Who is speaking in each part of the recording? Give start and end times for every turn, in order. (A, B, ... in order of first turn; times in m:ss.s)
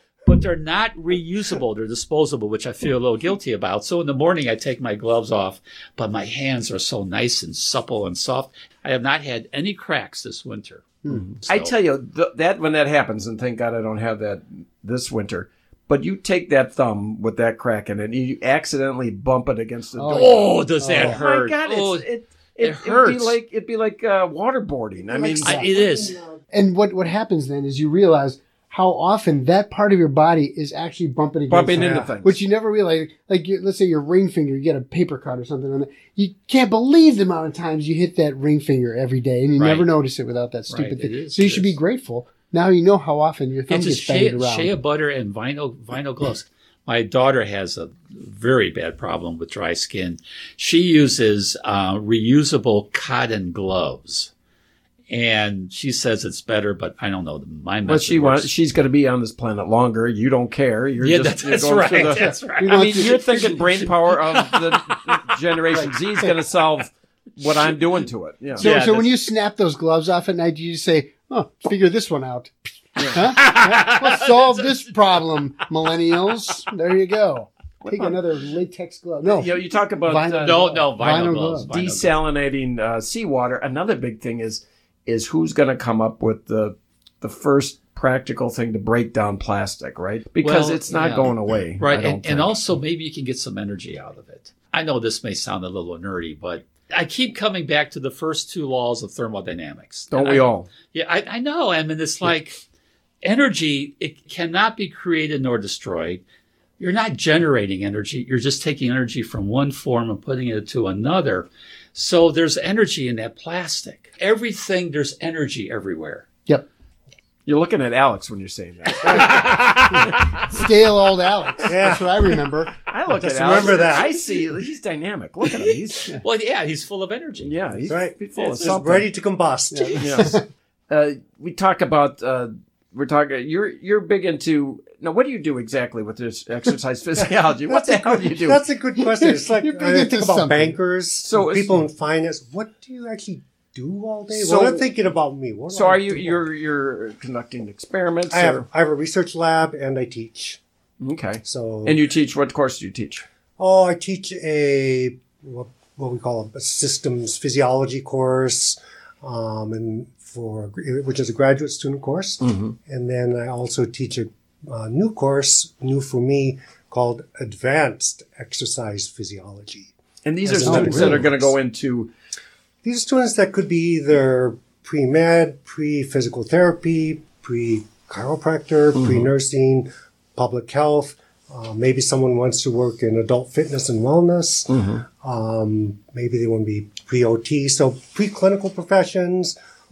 0:00.3-0:10.9 A
0:11.1-0:25.5 B
0:11.5-0:11.7 A
0:20.0-0:21.2 C
0:20.1-0:22.1 A
0:22.6-0:23.4 A
0:25.0-0:26.4 D
0:25.3-0:25.7 C
0:25.4-0:26.2 A
0:26.5-0:44.8 C
0:31.5-0:32.4 B
0:39.6-0:39.9 A
0:40.7-0:41.8 A
0:43.7-0:54.3 A
0:55.1-0:58.5 A
0:57.9-1:08.7 B
1:01.0-1:03.2 A
1:02.1-1:03.9 C
1:04.1-1:05.1 A
1:08.6-1:21.7 C
1:08.6-1:09.1 A
1:13.0-1:13.3 B
1:13.3-1:14.8 A
1:17.8-1:18.2 B
1:19.3-1:20.8 B
1:20.4-1:22.2 A
1:21.7-1:32.5 B
1:30.4-1:42.6 A
1:40.1-1:40.7 B
1:43.2-1:46.2 A
1:46.8-1:56.3 A
1:57.5-2:00.4 B
1:59.1-2:00.1 A
1:59.9-2:02.7 C
2:01.7-2:02.1 D
2:02.8-2:06.1 B
2:03.1-2:04.2 D
2:05.4-2:07.6 A
2:07.4-2:09.1 B
2:07.9-2:10.3 D
2:08.4-2:08.8 A
2:09.7-2:10.4 C
2:10.0-2:18.6 B
2:17.2-2:26.4 D
2:19.0-2:20.8 C
2:21.2-2:21.8 B
2:24.3-2:24.9 B
2:25.7-2:28.6 B
2:28.3-2:30.6 D
2:31.0-2:33.3 B
2:31.4-2:32.0 D
2:33.6-2:49.9 D
2:42.4-2:42.8 B
2:50.2-2:52.1 B
2:50.5-2:51.5 D
2:50.6-2:51.3 C
2:52.8-3:09.6 D
2:59.0-2:59.3 B
3:04.7-3:05.0 B